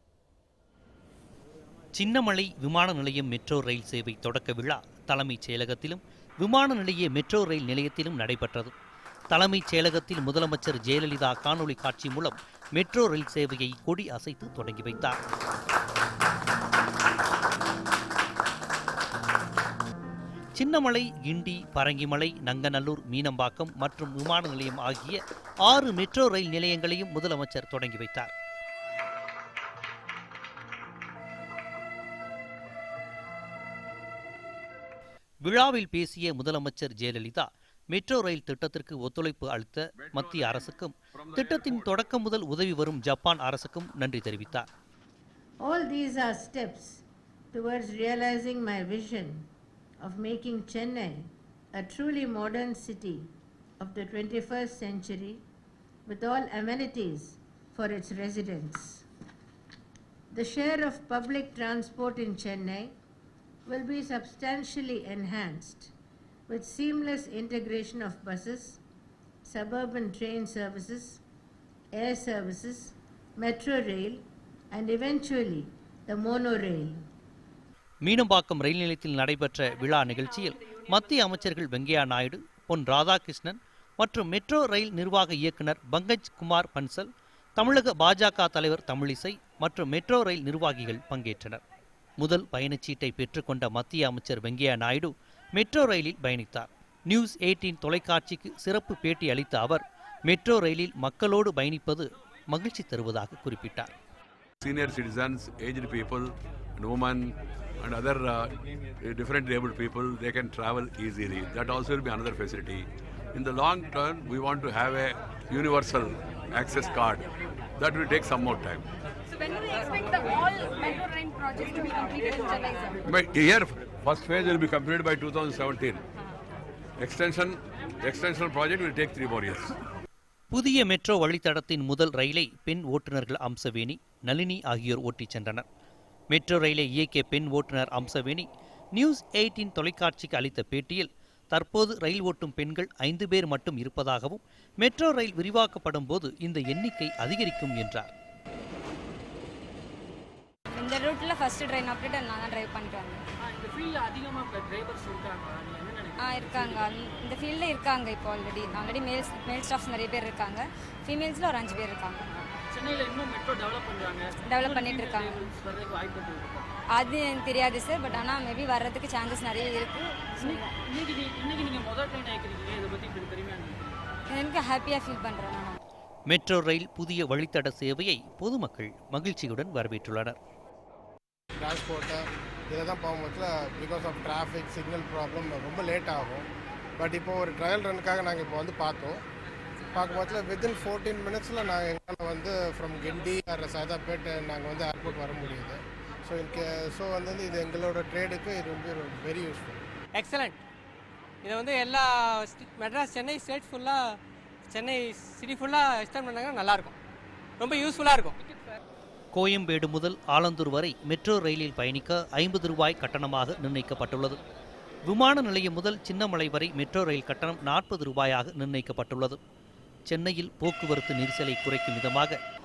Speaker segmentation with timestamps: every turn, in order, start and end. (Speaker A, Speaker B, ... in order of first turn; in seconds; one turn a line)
Speaker A: 1.9-8.7
Speaker A: 9.3-15.2
Speaker A: 20.6-28.3
Speaker A: 35.4-44.6
Speaker B: 45.6-49.5
Speaker B: 50.0-55.4
Speaker B: 56.0-59.0
Speaker B: 60.3-62.9
Speaker B: 63.6-65.9
Speaker B: 66.5-68.8
Speaker B: 69.4-71.2
Speaker B: 71.9-77.1
Speaker A: 78.0-91.6
Speaker A: 92.2-103.9
Speaker C: 104.6-117.2
Speaker C: 117.8-118.8
Speaker D: 119.7-122.8
Speaker C: 123.1-126.0
Speaker C: 127.0-129.7
Speaker A: 130.5-135.6
Speaker A: 136.3-148.1
Speaker D: 150.7-153.2
Speaker E: 153.4-156.9
Speaker D: 156.2-162.3
Speaker E: 162.3-166.7
Speaker D: 164.5-165.4
Speaker D: 166.9-170.7
Speaker E: 170.4-174.0
Speaker D: 174.3-175.8
Speaker A: 176.3-180.4
Speaker F: 181.6-186.5
Speaker F: 187.0-189.2
Speaker F: 189.9-199.8
Speaker G: 200.2-200.6
Speaker G: 201.4-204.0
Speaker G: 204.7-206.9
Speaker G: 207.6-208.3
Speaker A: 209.3-214.4
Speaker A: 215.1-219.4
Speaker A: 220.1-222.4